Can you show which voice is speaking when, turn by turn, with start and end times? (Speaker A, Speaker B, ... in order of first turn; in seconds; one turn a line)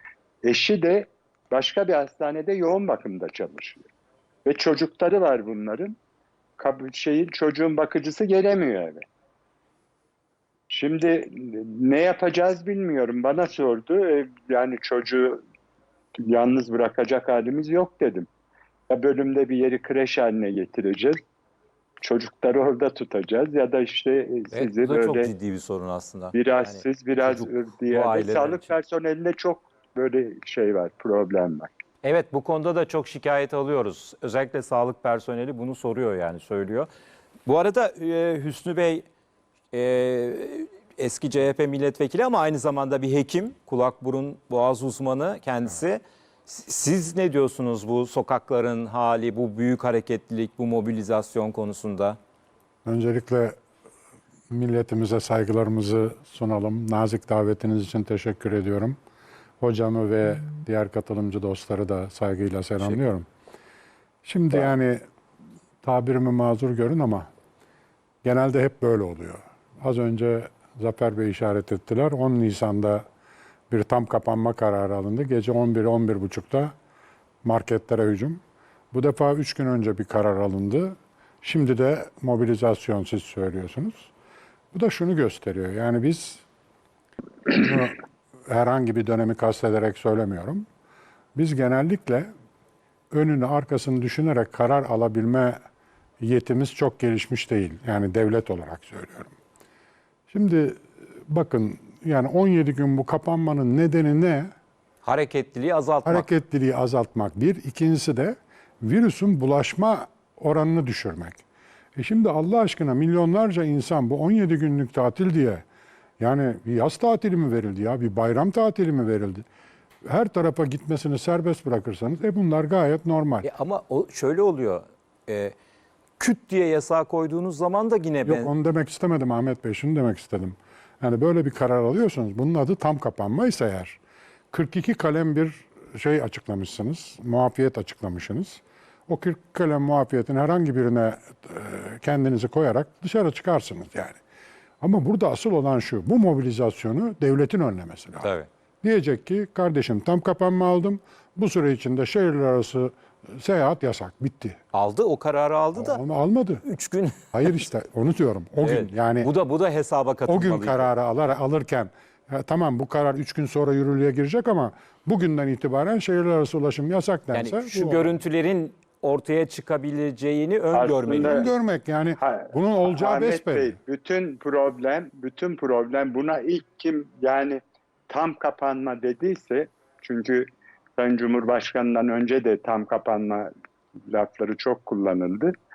Speaker A: 0.4-3.8
Speaker A: 4.4-6.0
Speaker A: 6.6-9.0
Speaker A: 10.7-15.4
Speaker A: 16.2-18.3
Speaker A: 18.9-21.2
Speaker A: 22.0-25.3
Speaker B: 24.5-28.7
Speaker A: 26.3-31.7
Speaker B: 32.0-36.9
Speaker B: 37.5-39.0
Speaker B: 39.7-52.2
Speaker C: 52.8-53.6
Speaker C: 54.5-59.0
Speaker C: 59.6-63.3
Speaker C: 64.2-65.0
Speaker C: 65.8-67.3
Speaker C: 68.2-73.0
Speaker C: 73.7-76.7
Speaker C: 77.4-78.4
Speaker C: 78.9-84.1
Speaker C: 84.7-86.4
Speaker C: 87.5-88.0
Speaker C: 88.5-90.7
Speaker C: 91.3-92.3
Speaker C: 93.1-95.6
Speaker C: 96.2-99.3
Speaker C: 100.3-104.5
Speaker B: 105.0-106.3
Speaker C: 106.0-111.4
Speaker C: 112.0-115.6
Speaker C: 116.2-119.5
Speaker C: 120.0-123.5
Speaker B: 123.4-125.5
Speaker B: 126.2-128.5
Speaker C: 128.2-134.0
Speaker C: 134.5-144.2
Speaker C: 144.8-148.3
Speaker B: 148.2-148.5
Speaker C: 148.8-154.6
Speaker B: 154.7-156.0
Speaker C: 155.7-156.6
Speaker B: 156.6-157.2
Speaker C: 157.3-159.3
Speaker B: 158.6-160.9
Speaker C: 160.3-168.1
Speaker B: 167.3-171.4
Speaker A: 170.7-171.5
Speaker C: 171.1-173.7
Speaker A: 172.2-183.5
Speaker A: 184.1-185.5